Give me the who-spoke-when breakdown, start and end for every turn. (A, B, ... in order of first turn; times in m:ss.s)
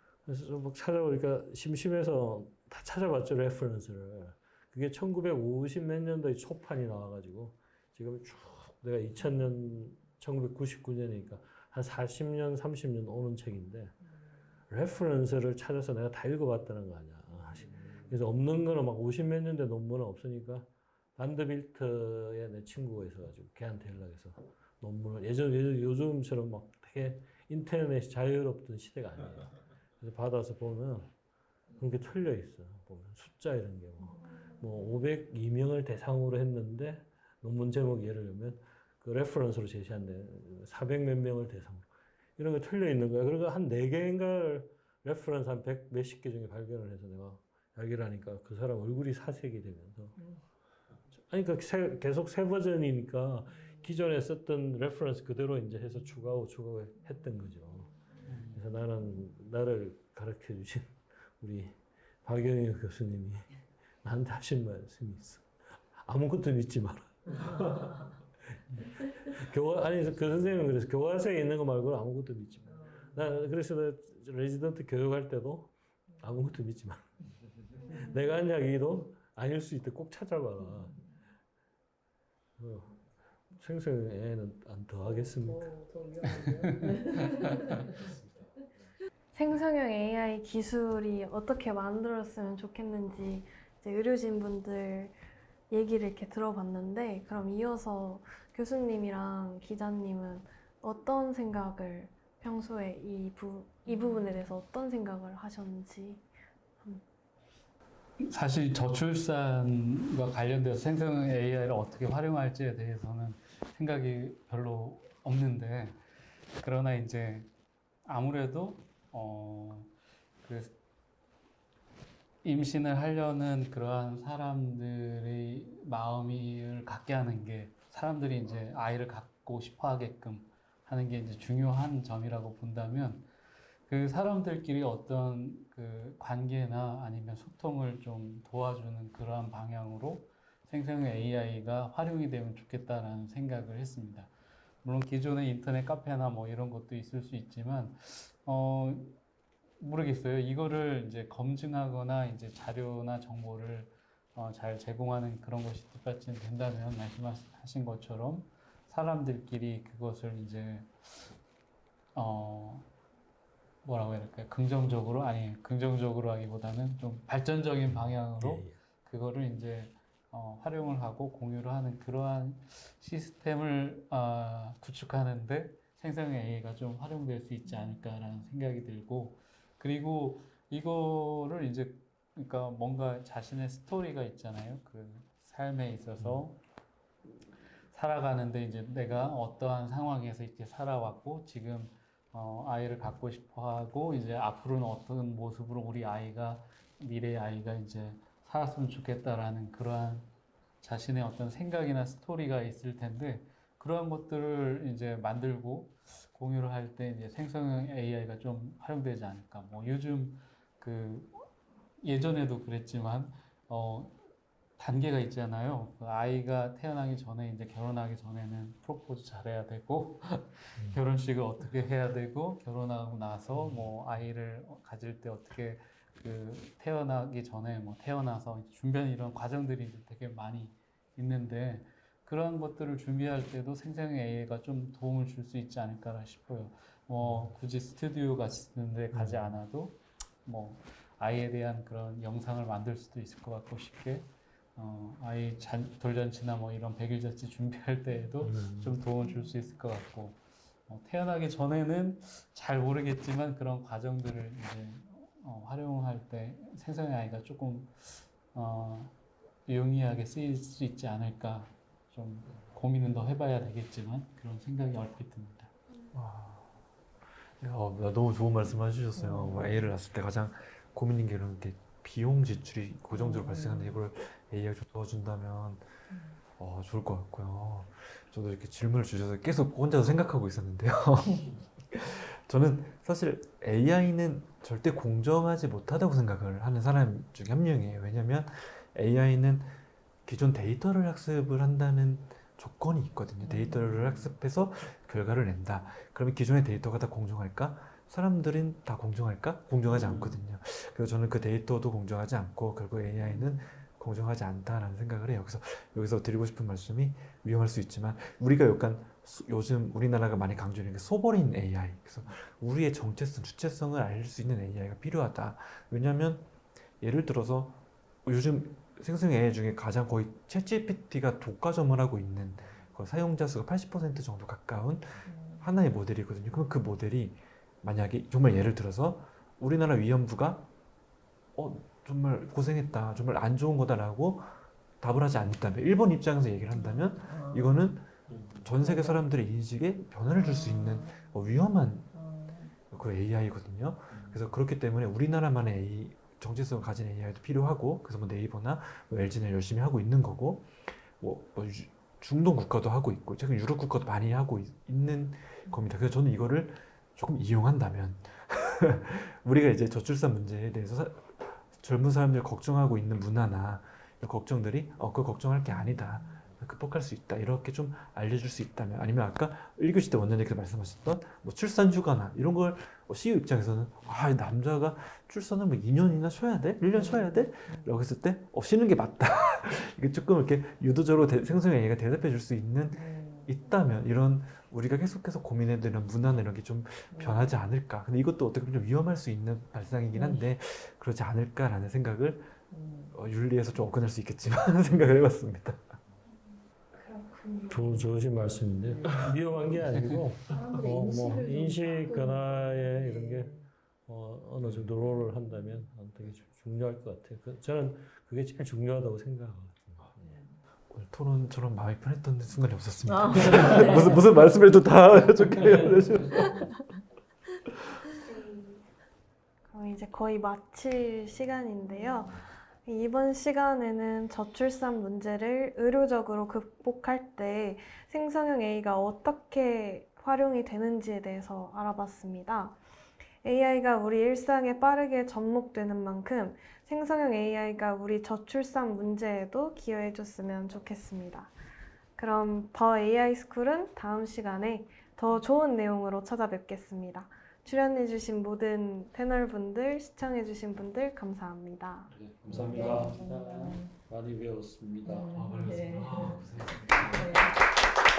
0:00.2-0:14.0 A
0:14.7-0:31.1 A
0:31.7-0:50.2 A
0:51.2-0:57.9 A
0:53.5-0:53.9 B
0:57.7-0:58.3 B
0:58.3-0:58.6 C
0:58.4-1:07.9 A
1:08.8-1:17.1 A
1:17.8-1:18.1 D
1:17.8-1:21.0 A
1:20.8-1:21.1 B
1:22.6-1:23.0 A
1:23.5-1:25.7 A
1:25.0-1:28.1 B
1:26.4-1:27.5 C
1:29.3-1:35.2 D
1:35.7-1:46.2 D
1:48.2-1:56.0 C
1:56.5-1:57.5 C
1:58.0-1:59.9 C
2:00.4-2:00.8 C
2:02.4-2:13.3 C
2:13.9-2:24.3 C
2:24.8-2:29.2 C
2:29.8-2:41.3 C
2:42.1-2:42.9 C
2:43.8-3:06.6 C
2:47.9-2:48.8 A
3:07.9-3:31.5 C
3:32.0-3:34.2 C
3:34.8-4:25.7 C
3:43.5-3:43.9 A
3:57.2-3:57.5 A
3:59.1-3:59.6 A
4:08.4-4:09.0 A
4:26.1-4:26.7 E
4:27.6-4:35.9 E
4:29.1-4:29.9 B
4:33.1-4:34.0 B
4:36.1-4:36.4 B
4:36.6-4:49.7 E
4:50.2-5:16.4 E
4:53.5-4:53.8 B
4:53.9-4:54.3 A
4:59.9-5:00.4 A
5:03.3-5:03.7 B
5:17.0-5:30.7 E
5:22.6-5:22.9 A
5:25.2-5:25.7 B
5:31.5-5:34.5 E
5:35.0-5:42.1 E
5:36.7-5:38.0 B
5:38.3-5:38.6 A
5:38.8-5:39.3 B
5:40.3-5:41.6 B
5:42.1-5:42.7 B
5:42.9-6:32.6 E
5:44.1-5:44.4 A
6:05.7-6:06.4 B
6:16.9-6:18.0 B
6:22.9-6:23.6 B
6:27.1-6:27.6 B
6:30.1-6:30.4 B
6:32.7-6:33.2 B
6:33.1-6:36.0 E
6:37.3-6:37.9 D
6:37.7-6:50.4 A
6:40.8-6:41.4 B
6:42.8-6:43.7 B
6:50.3-6:50.6 B
6:50.9-6:56.6 E
6:53.0-6:54.5 B
6:56.3-6:56.9 B
6:58.2-6:58.8 D
6:59.7-7:12.8 D
7:13.4-7:21.5 D
7:22.2-7:32.1 D
7:32.1-7:35.3 A
7:32.7-7:33.8 B
7:35.0-7:36.4 B
7:35.2-7:37.4 E
7:37.1-7:37.5 B